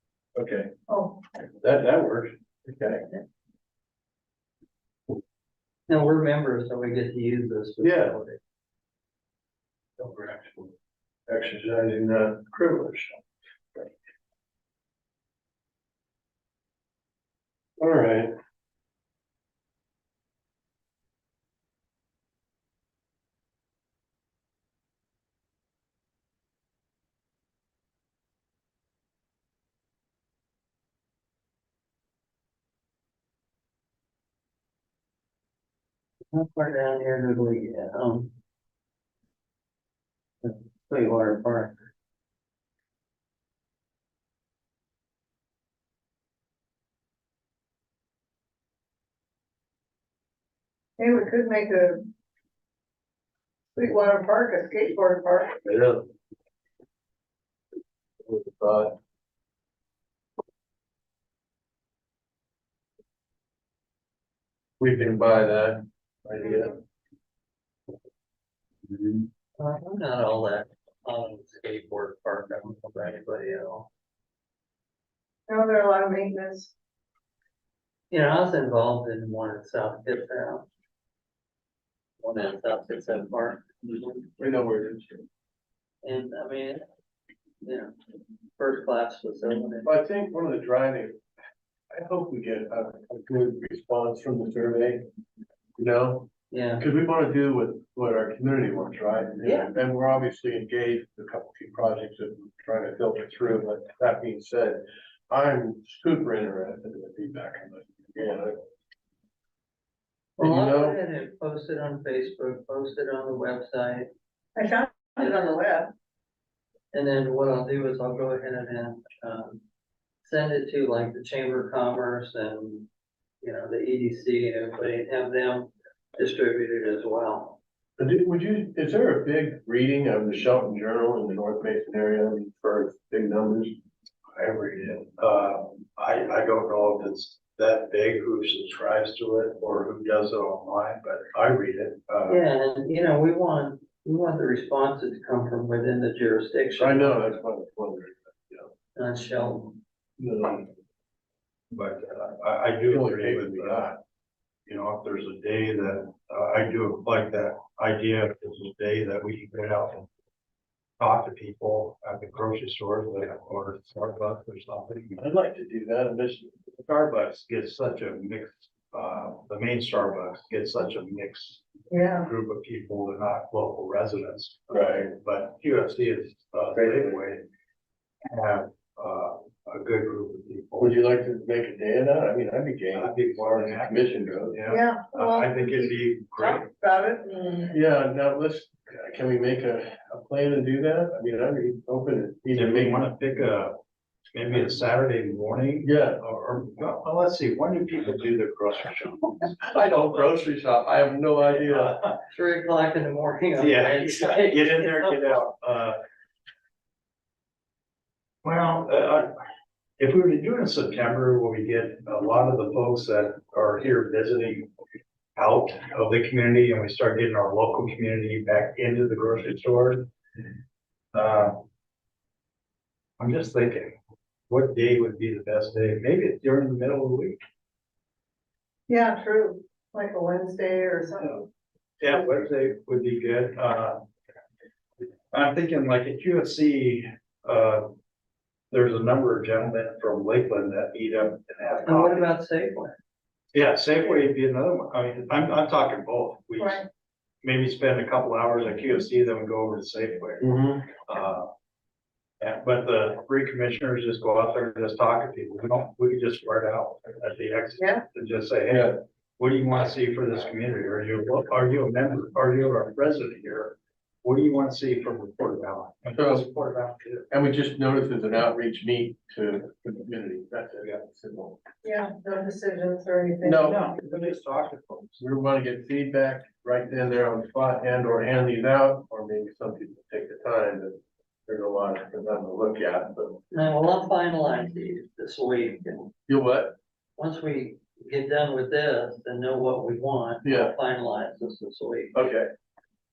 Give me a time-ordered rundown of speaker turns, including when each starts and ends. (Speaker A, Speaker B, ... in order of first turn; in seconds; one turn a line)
Speaker A: 0.3-0.8
Speaker B: 0.9-1.2
Speaker A: 1.6-3.1
Speaker C: 5.9-8.4
Speaker A: 7.8-8.2
Speaker A: 10.0-10.7
Speaker A: 11.3-13.2
Speaker A: 17.8-18.3
Speaker C: 36.3-38.3
Speaker C: 40.4-41.7
Speaker B: 51.0-52.0
Speaker B: 53.8-55.5
Speaker A: 55.6-56.1
Speaker A: 58.2-59.0
Speaker A: 64.8-66.8
Speaker C: 69.6-73.9
Speaker B: 75.5-76.7
Speaker C: 78.1-80.7
Speaker C: 82.2-84.2
Speaker A: 84.4-85.2
Speaker C: 86.0-86.9
Speaker C: 87.6-87.9
Speaker C: 88.6-89.9
Speaker A: 89.8-91.2
Speaker A: 91.9-95.0
Speaker A: 95.8-108.6
Speaker C: 96.5-96.9
Speaker C: 99.4-99.7
Speaker C: 110.4-114.1
Speaker A: 110.4-111.0
Speaker B: 114.6-115.9
Speaker C: 116.9-119.6
Speaker C: 120.2-122.9
Speaker C: 123.4-127.6
Speaker A: 128.0-133.8
Speaker D: 134.3-142.4
Speaker C: 142.3-147.3
Speaker A: 146.8-148.7
Speaker C: 149.0-149.8
Speaker A: 150.2-150.7
Speaker D: 151.7-153.9
Speaker A: 152.9-154.0
Speaker D: 154.7-160.1
Speaker D: 161.0-165.2
Speaker A: 165.2-166.7
Speaker D: 166.8-177.4
Speaker B: 171.9-172.3
Speaker A: 174.7-175.1
Speaker A: 176.7-177.2
Speaker D: 178.3-181.0
Speaker A: 180.8-184.7
Speaker D: 182.9-186.7
Speaker B: 184.7-185.5
Speaker B: 186.8-187.7
Speaker A: 187.7-193.1
Speaker D: 192.5-193.8
Speaker D: 194.3-199.9
Speaker A: 195.8-196.2
Speaker A: 199.7-202.0
Speaker D: 201.5-202.2
Speaker C: 202.3-205.3
Speaker D: 203.6-206.0
Speaker D: 208.4-209.3
Speaker D: 210.0-214.7
Speaker D: 215.4-220.1
Speaker D: 221.1-221.6
Speaker D: 223.2-224.0
Speaker D: 224.5-227.4
Speaker B: 228.9-231.4
Speaker D: 232.0-234.0
Speaker D: 235.3-237.9
Speaker D: 238.7-242.3
Speaker C: 241.9-243.0
Speaker D: 243.5-246.9
Speaker D: 247.4-251.5
Speaker A: 250.4-250.9
Speaker D: 252.4-267.3
Speaker B: 257.8-258.0
Speaker A: 258.7-259.0
Speaker A: 266.2-266.5
Speaker A: 267.3-271.8
Speaker B: 271.8-273.7
Speaker A: 273.4-274.4
Speaker D: 273.6-275.2
Speaker A: 275.2-283.4
Speaker C: 283.5-286.1
Speaker A: 286.3-286.8
Speaker C: 287.2-292.2
Speaker A: 290.4-290.8
Speaker A: 292.1-292.5